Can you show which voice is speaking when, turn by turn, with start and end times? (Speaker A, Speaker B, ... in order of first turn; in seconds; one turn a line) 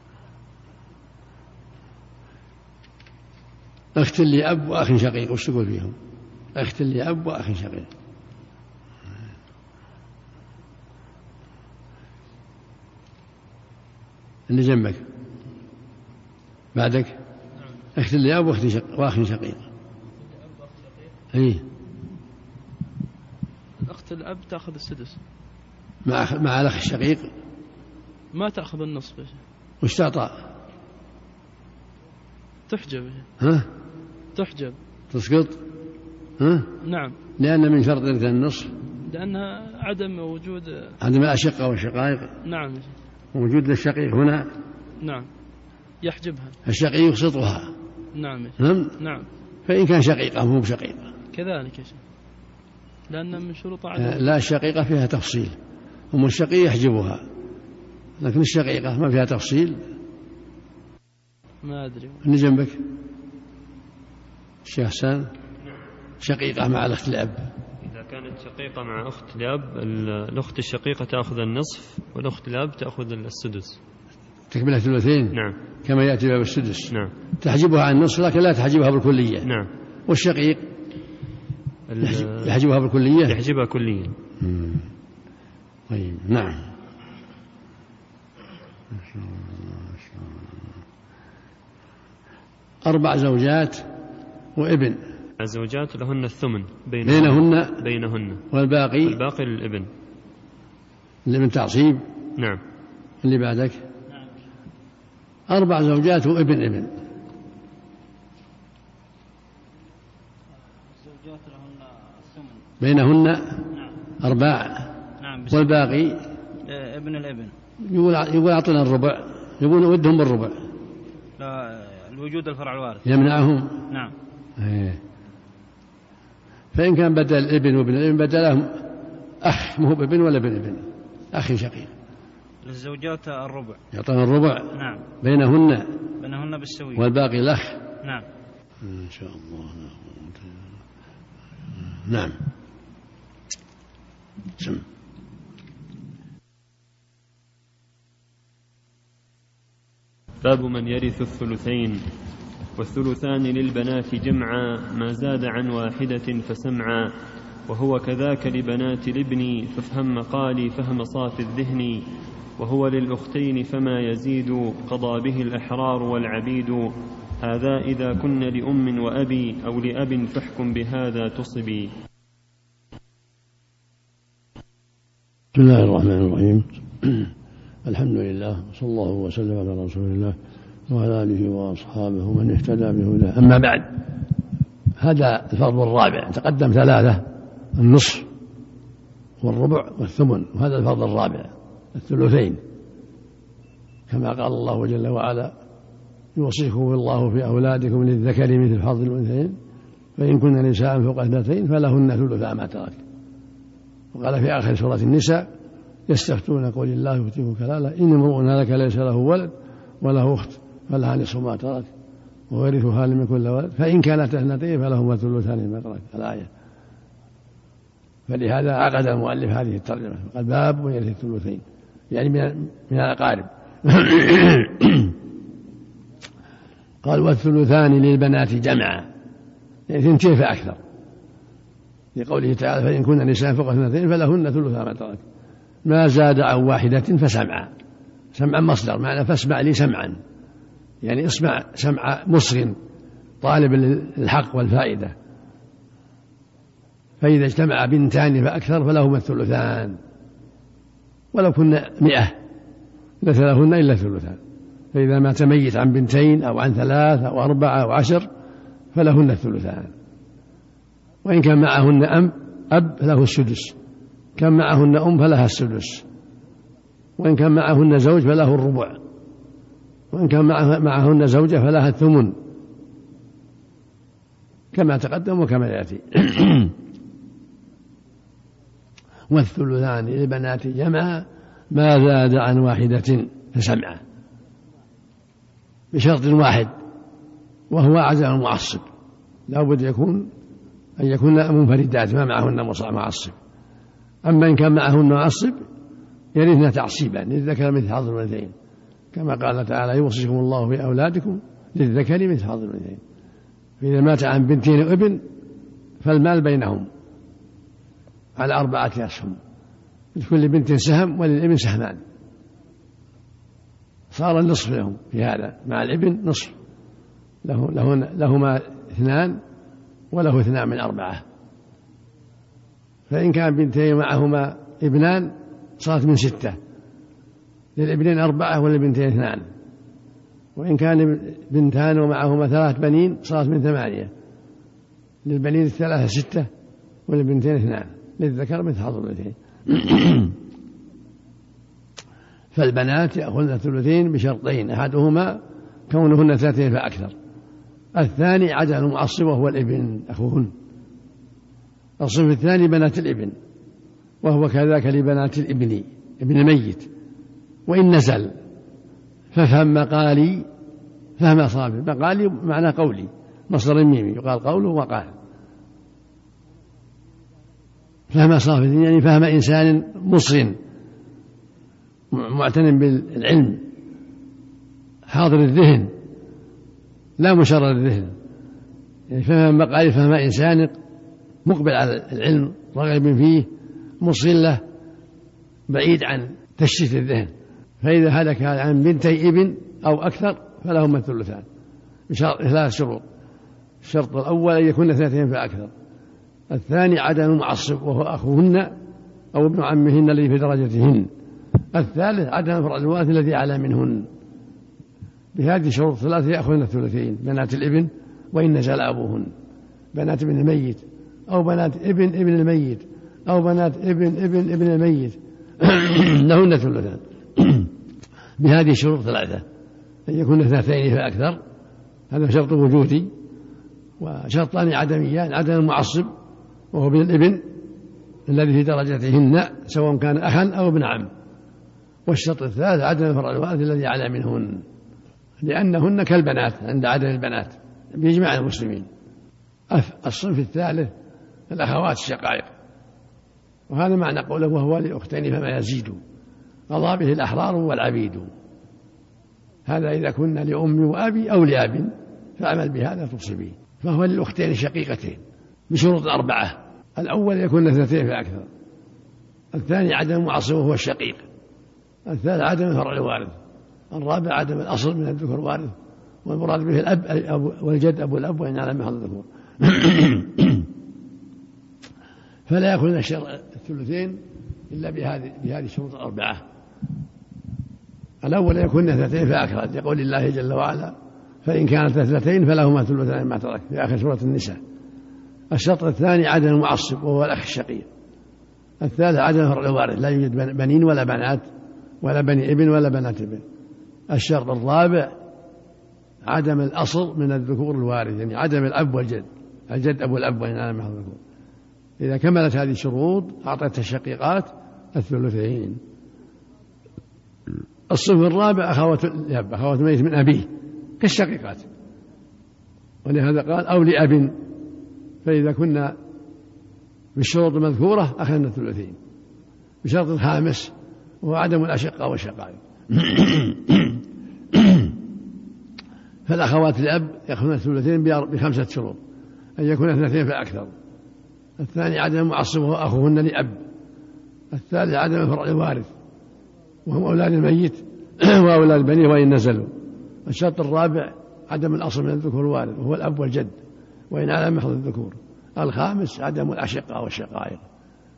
Speaker A: 3.9-6.0
Speaker A: 6.5-7.9
Speaker A: 14.5-15.0
Speaker A: 16.7-17.2
Speaker A: 17.9-19.6
Speaker B: 20.2-21.1
Speaker A: 21.3-21.6
Speaker B: 23.8-25.2
Speaker A: 26.0-27.3
Speaker B: 28.3-29.4
Speaker A: 29.8-30.3
Speaker B: 32.7-33.3
Speaker A: 33.4-33.7
Speaker B: 34.3-34.8
Speaker A: 35.1-35.6
Speaker A: 36.4-36.7
Speaker B: 36.8-37.1
Speaker A: 37.4-38.7
Speaker B: 39.0-40.9
Speaker A: 41.0-42.3
Speaker B: 42.4-42.9
Speaker A: 43.3-44.5
Speaker B: 45.0-45.3
Speaker B: 46.0-46.5
Speaker A: 46.6-47.7
Speaker B: 48.1-49.3
Speaker A: 48.6-48.9
Speaker A: 49.6-51.1
Speaker B: 51.3-52.0
Speaker B: 53.1-54.2
Speaker A: 54.0-55.6
Speaker A: 56.1-57.2
Speaker A: 58.2-59.8
Speaker B: 61.6-62.2
Speaker A: 62.2-62.8
Speaker A: 64.6-65.2
Speaker A: 66.2-67.4
Speaker C: 67.8-73.8
Speaker A: 74.5-79.5
Speaker C: 79.4-79.7
Speaker A: 80.1-80.6
Speaker C: 81.9-82.5
Speaker A: 82.0-83.4
Speaker C: 83.2-84.2
Speaker A: 84.4-84.9
Speaker A: 85.9-86.7
Speaker A: 88.9-90.5
Speaker A: 92.8-93.8
Speaker A: 94.5-95.0
Speaker C: 95.4-98.5
Speaker A: 97.0-97.8
Speaker A: 98.5-99.2
Speaker C: 99.0-99.9
Speaker A: 101.2-102.0
Speaker A: 103.2-103.8
Speaker A: 105.5-106.9
Speaker D: 110.9-112.6
Speaker A: 112.8-113.7
Speaker A: 114.2-114.9
Speaker D: 115.2-115.8
Speaker A: 115.5-116.2
Speaker D: 116.6-117.5
Speaker A: 117.8-120.5
Speaker D: 121.4-123.0
Speaker A: 123.0-123.8
Speaker A: 124.6-125.0
Speaker A: 126.7-128.7
Speaker A: 129.4-131.9
Speaker D: 132.6-133.8
Speaker A: 133.9-135.9
Speaker D: 134.8-135.0
Speaker D: 136.2-137.0
Speaker A: 136.9-137.8
Speaker A: 138.8-140.6
Speaker A: 141.8-142.4
Speaker A: 144.6-144.8
Speaker C: 150.4-152.0
Speaker C: 152.8-157.1
Speaker C: 157.7-162.0
Speaker C: 162.6-171.9
Speaker A: 175.5-177.3
Speaker A: 177.8-180.4
Speaker A: 180.9-184.0
Speaker A: 185.0-188.3
Speaker A: 189.4-192.6
Speaker A: 194.1-195.6
Speaker A: 196.3-199.6
Speaker A: 200.2-203.0
Speaker A: 204.1-205.5
Speaker A: 206.1-211.9
Speaker A: 212.5-216.5
Speaker A: 218.3-225.2
Speaker A: 227.0-229.1
Speaker A: 229.9-230.8
Speaker A: 232.1-235.2
Speaker A: 235.8-237.7
Speaker A: 238.3-240.2
Speaker A: 241.0-242.8
Speaker A: 243.4-245.1
Speaker A: 247.2-250.0
Speaker A: 251.3-252.4
Speaker A: 253.2-254.4
Speaker A: 254.9-258.3
Speaker A: 258.9-259.9
Speaker A: 261.2-263.8
Speaker A: 264.4-266.0
Speaker A: 267.2-269.0
Speaker A: 270.1-272.4
Speaker A: 274.7-276.7
Speaker A: 279.3-284.0
Speaker A: 285.9-286.7
Speaker A: 287.7-288.9
Speaker A: 289.5-290.3
Speaker A: 291.0-293.4
Speaker A: 294.2-295.6
Speaker A: 296.3-298.5
Speaker A: 299.1-303.0
Speaker A: 303.8-305.2
Speaker A: 306.0-306.9
Speaker A: 308.4-309.4
Speaker A: 310.1-312.0
Speaker A: 314.1-316.6
Speaker A: 317.4-319.4
Speaker A: 320.1-321.2
Speaker A: 323.1-326.6
Speaker A: 327.8-329.5
Speaker A: 330.6-334.1
Speaker A: 335.2-336.5
Speaker A: 337.1-340.4
Speaker A: 342.5-347.1
Speaker A: 347.9-350.5
Speaker A: 352.0-353.3
Speaker A: 354.2-356.9
Speaker A: 357.7-358.4
Speaker A: 359.3-360.5
Speaker A: 361.2-365.1
Speaker A: 368.1-370.6
Speaker A: 372.1-373.7
Speaker A: 375.1-375.9
Speaker A: 377.2-378.1
Speaker A: 379.1-380.8
Speaker A: 381.4-384.6
Speaker A: 385.7-391.4
Speaker A: 392.1-393.0
Speaker A: 393.8-395.7
Speaker A: 396.5-398.8
Speaker A: 399.3-401.1
Speaker A: 401.7-404.1
Speaker A: 405.3-409.3
Speaker A: 409.9-417.7
Speaker A: 418.4-419.4
Speaker A: 420.1-421.4
Speaker A: 422.1-423.1
Speaker A: 424.0-426.1
Speaker A: 426.7-427.6
Speaker A: 428.3-431.1
Speaker A: 432.1-434.6
Speaker A: 435.4-438.9
Speaker A: 439.7-440.9
Speaker A: 441.5-442.5
Speaker A: 443.7-446.0
Speaker A: 446.7-448.3
Speaker A: 449.6-458.5
Speaker A: 459.5-461.2
Speaker A: 462.1-463.4
Speaker A: 463.9-470.7
Speaker A: 472.5-476.4
Speaker A: 478.2-484.6
Speaker A: 485.5-487.9
Speaker A: 488.8-491.5
Speaker A: 492.0-493.4
Speaker A: 494.1-495.1
Speaker A: 496.2-501.2
Speaker A: 502.0-505.8
Speaker A: 507.9-511.7
Speaker A: 513.0-514.4
Speaker A: 515.2-516.0
Speaker A: 517.1-519.0
Speaker A: 519.8-525.0
Speaker A: 526.3-529.0
Speaker A: 529.6-530.7
Speaker A: 531.6-533.6
Speaker A: 534.5-535.9
Speaker A: 536.9-539.7
Speaker A: 540.2-543.6
Speaker A: 544.1-547.6